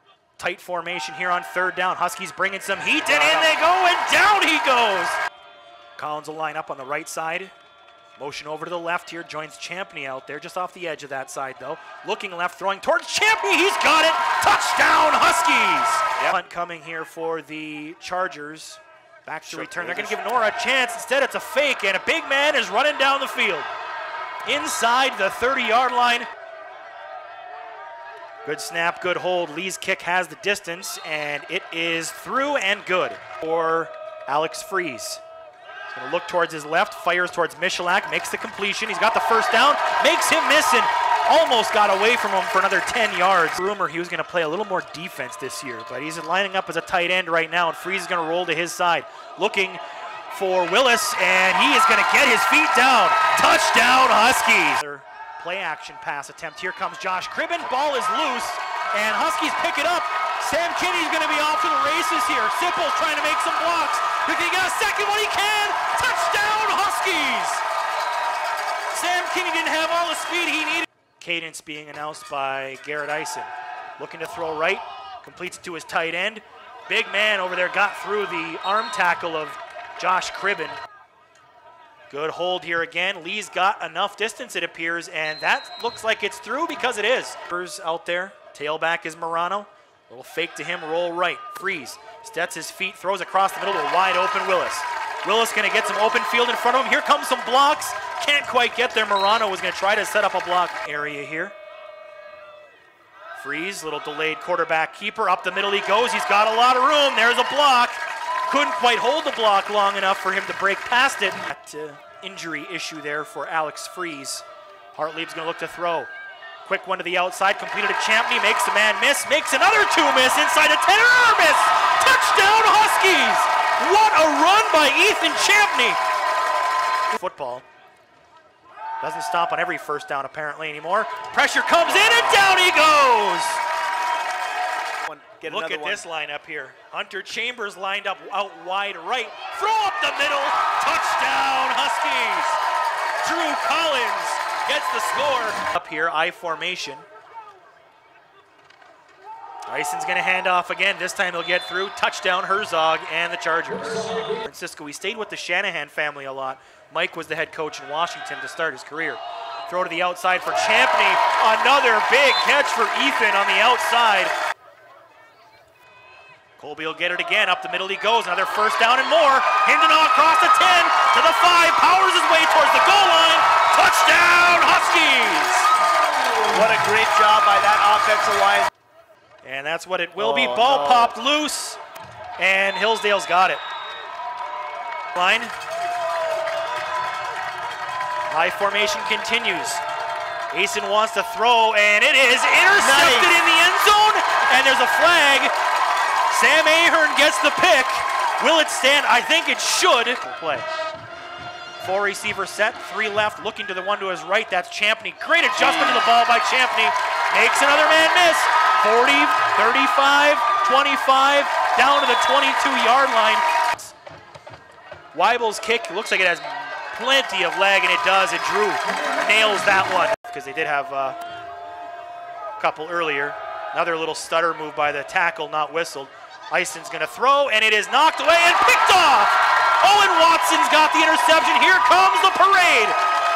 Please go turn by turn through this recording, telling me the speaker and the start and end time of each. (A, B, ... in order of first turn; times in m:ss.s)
0:00.4-0:05.2 A
0:03.1-0:03.5 B
0:06.0-0:07.5 A
0:08.2-0:23.7 A
0:19.4-0:20.2 B
0:24.4-0:26.3 A
0:28.4-0:35.2 A
0:35.9-1:07.6 A
1:08.9-1:20.8 A
1:22.1-1:41.5 A
1:43.4-1:56.1 A
1:56.6-2:06.0 A
2:07.1-2:07.6 A
2:09.0-2:13.6 A
2:12.0-2:12.5 B
2:15.1-2:16.0 B
2:15.4-2:22.6 A
2:23.2-2:27.1 A
2:29.7-2:44.3 A
2:46.6-2:55.7 A
2:56.4-2:58.7 B
2:59.4-3:01.8 A
3:00.2-3:01.1 B
3:02.4-3:03.6 A
3:05.1-3:05.5 A
3:08.3-3:09.8 A
3:10.5-3:15.5 A
3:12.8-3:13.3 B
3:16.3-3:20.7 A
3:21.8-3:33.9 A
3:25.6-3:26.1 B
3:35.1-3:41.2 A
3:42.6-3:53.0 A